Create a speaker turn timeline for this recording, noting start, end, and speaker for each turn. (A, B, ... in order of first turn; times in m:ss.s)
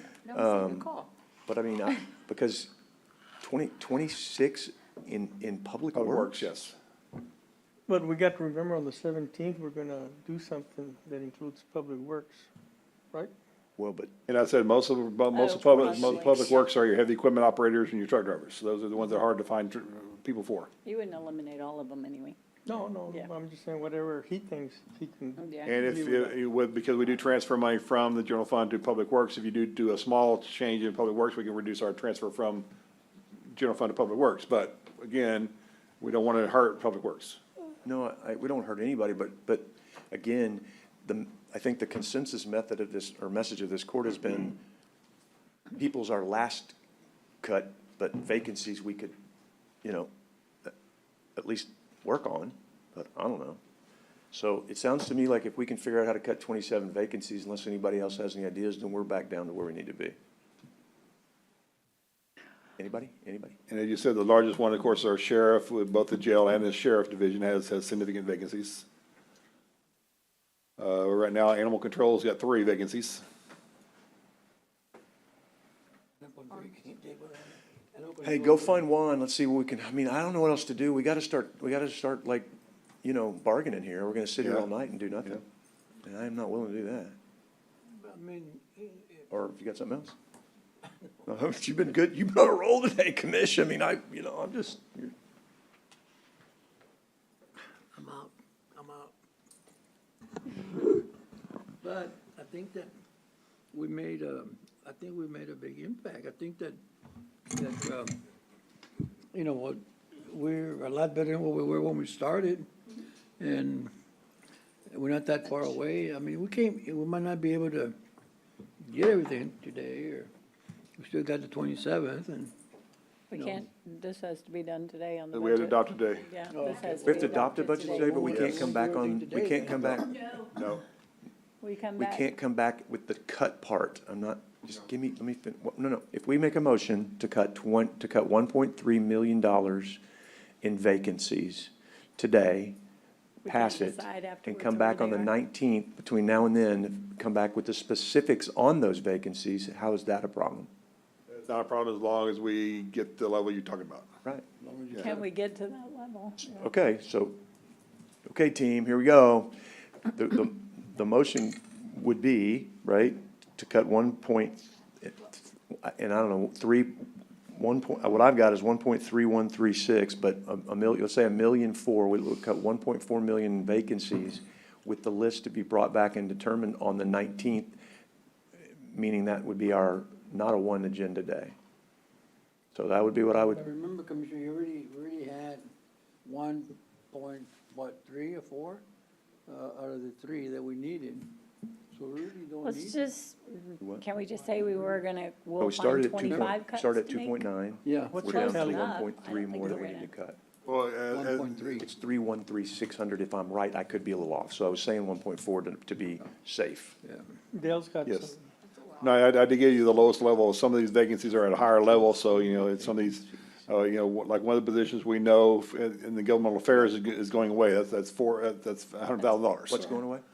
0:00.3-0:00.9 A
0:00.6-0:01.0 B
0:01.5-0:02.7 A
0:03.4-0:06.5 A
0:05.9-0:06.7 C
0:07.9-0:12.5 B
0:13.8-0:14.1 A
0:14.3-0:20.7 C
0:15.3-0:16.7 D
0:20.8-0:22.4 D
0:22.6-0:26.4 B
0:25.4-0:25.8 D
0:25.6-0:32.7 C
0:33.5-0:37.4 C
0:37.8-0:44.6 A
0:45.8-0:46.7 A
0:47.4-0:49.1 A
0:49.8-0:50.1 A
0:51.4-0:53.6 A
0:54.3-1:00.2 A
1:02.8-1:03.6 A
1:03.7-1:08.8 C
1:10.8-1:13.2 C
1:16.2-1:18.8 E
1:18.2-1:22.5 A
1:23.0-1:25.4 A
1:24.4-1:24.7 C
1:26.0-1:27.2 A
1:27.9-1:29.2 E
1:29.3-1:30.1 A
1:31.2-1:35.1 A
1:37.9-1:39.1 E
1:40.6-1:41.0 E
1:41.8-1:42.9 E
1:43.7-1:46.8 E
1:47.5-1:48.2 E
1:49.3-1:52.7 E
1:53.4-1:53.9 E
1:54.9-1:57.9 E
1:58.8-2:00.3 E
2:01.0-2:02.5 E
2:03.3-2:08.3 D
2:03.3-2:03.6 E
2:05.3-2:06.3 C
2:06.5-2:10.0 E
2:07.0-2:10.2 A
2:08.2-2:08.7 C
2:09.7-2:10.8 C
2:11.6-2:12.3 D
2:12.0-2:20.0 A
2:20.6-2:22.8 A
2:23.4-2:25.3 D
2:23.4-2:30.7 A
2:31.3-2:34.1 C
2:34.6-2:35.3 E
2:35.0-2:36.6 D
2:36.4-2:37.4 A
2:38.2-2:57.8 A
2:58.8-3:01.5 A
3:02.7-3:03.6 A
3:03.5-3:05.7 E
3:06.2-3:08.8 E
3:09.5-3:11.4 E
3:11.9-3:13.1 E
3:12.6-3:17.5 D
3:15.6-3:20.4 A
3:16.2-3:16.5 E
3:17.8-3:18.2 E
3:18.1-3:18.9 B
3:18.2-3:20.1 D
3:20.6-3:21.8 C
3:21.1-3:21.8 E
3:21.8-3:27.0 A
3:27.5-3:29.1 B
3:28.0-3:28.3 C
3:29.0-3:40.0 C
3:32.3-3:33.6 A
3:39.7-3:40.2 A